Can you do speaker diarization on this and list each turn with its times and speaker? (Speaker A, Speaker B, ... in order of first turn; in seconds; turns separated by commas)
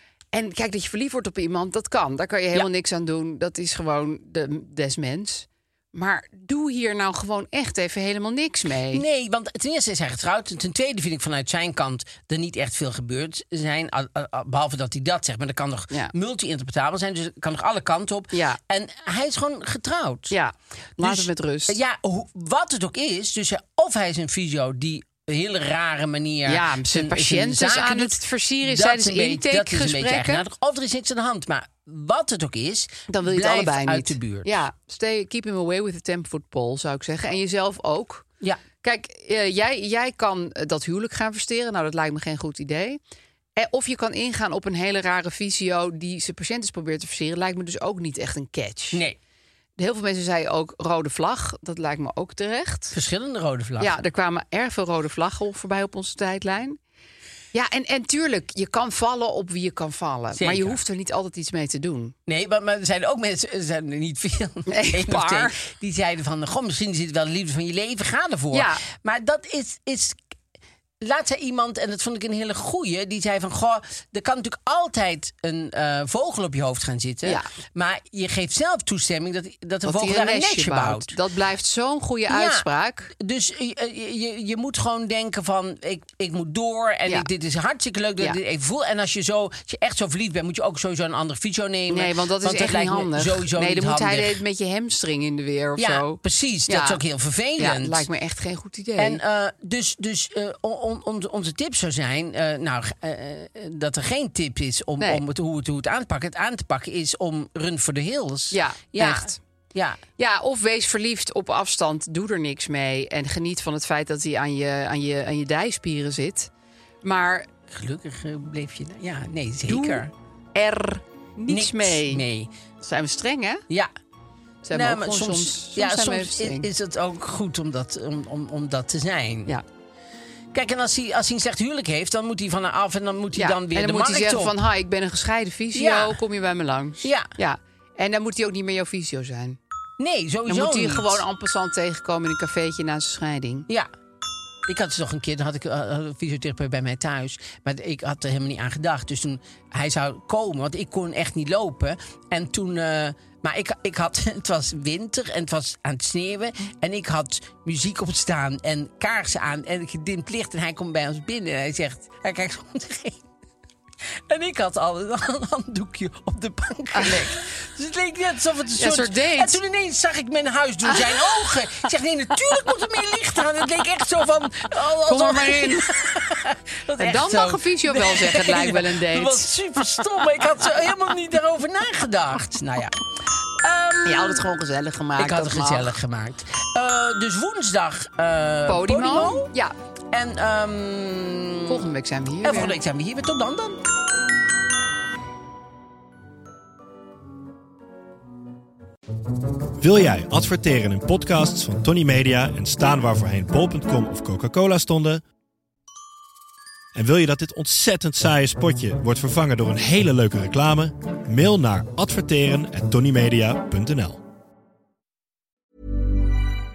Speaker A: 0.3-9.0, Speaker B: 8.9-20.4, Speaker A: 18.3-18.6, Speaker A: 20.3-21.8, Speaker B: 21.0-34.6, Speaker A: 26.4-30.4, Speaker A: 33.1-38.2, Speaker A: 38.8-43.0, Speaker A: 43.5-49.0, Speaker B: 48.9-49.2, Speaker A: 49.8-53.0, Speaker B: 52.9-53.9, Speaker A: 53.8-56.8, Speaker A: 57.5-62.1, Speaker B: 60.3-60.8, Speaker B: 62.3-70.2, Speaker A: 64.7-65.6, Speaker A: 68.5-68.8, Speaker B: 71.0-81.1, Speaker A: 77.2-77.5, Speaker A: 79.8-83.1, Speaker B: 82.3-94.4, Speaker A: 91.9-97.0, Speaker B: 95.8-98.1, Speaker A: 97.6-99.2, Speaker B: 99.0-110.0, Speaker A: 108.5-109.4, Speaker A: 110.2-116.5, Speaker A: 117.0-117.5, Speaker B: 117.7-120.1, Speaker A: 119.7-122.2, Speaker B: 121.5-122.5, Speaker A: 122.8-123.6, Speaker A: 124.6-126.7, Speaker B: 124.7-129.5, Speaker B: 130.5-134.6, Speaker A: 133.3-139.6, Speaker B: 135.7-136.2, Speaker B: 137.0-137.3, Speaker B: 140.0-141.2, Speaker A: 140.5-143.7, Speaker B: 144.7-163.3, Speaker B: 164.0-183.1, Speaker A: 168.8-169.6, Speaker A: 175.0-175.9, Speaker A: 177.0-179.5, Speaker B: 183.6-184.4, Speaker A: 184.1-185.9, Speaker B: 185.2-189.5, Speaker A: 188.7-189.7, Speaker B: 190.1-191.8, Speaker A: 191.7-192.8, Speaker B: 192.4-193.8, Speaker C: 199.8-205.2, Speaker C: 206.9-214.2